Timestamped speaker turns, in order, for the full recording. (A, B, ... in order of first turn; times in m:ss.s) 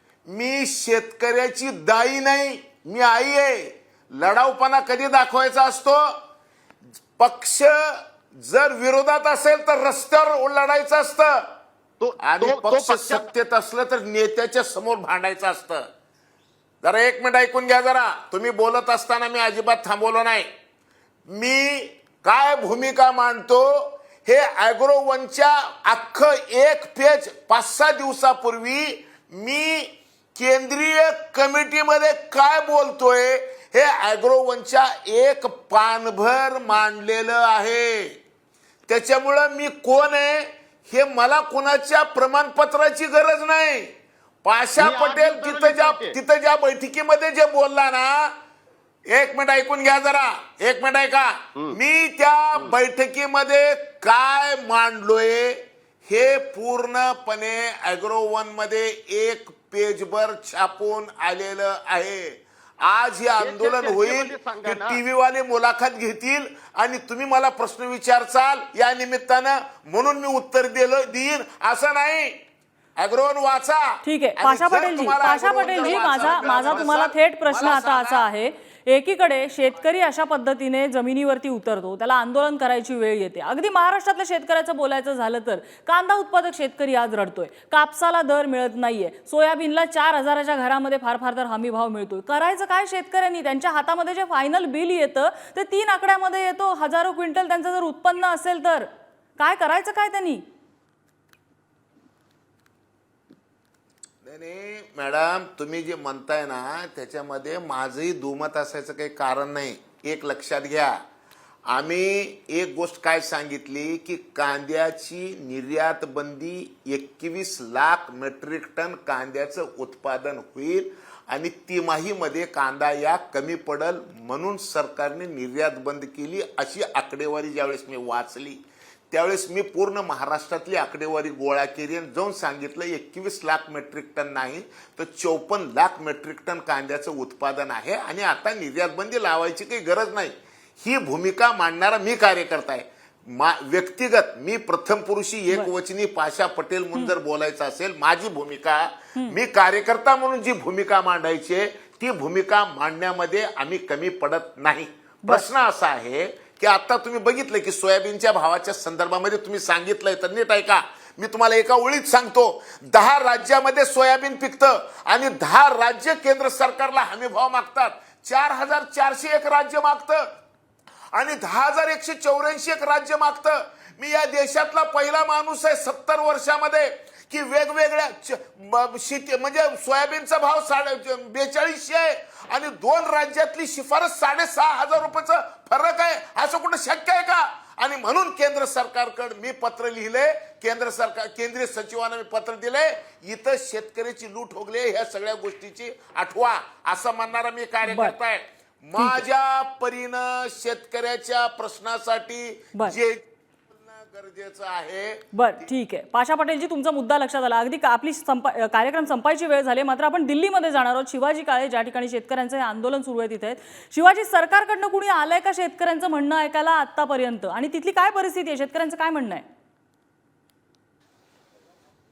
0:00.3-0:06.2 A
0:07.2-0:11.6 A
0:12.0-0:13.2 B
0:12.2-0:15.9 A
0:16.8-0:20.5 A
0:21.3-0:38.2 A
0:38.9-0:43.9 A
0:44.4-0:48.4 A
0:44.8-0:46.1 B
0:49.1-1:12.4 A
1:03.4-1:05.0 B
1:13.0-1:18.2 A
1:14.0-1:40.4 C
1:44.2-1:51.0 A
1:51.7-2:50.3 A
2:51.1-3:25.7 A
3:17.8-3:18.1 C
3:19.0-3:19.2 C
3:25.3-3:39.4 C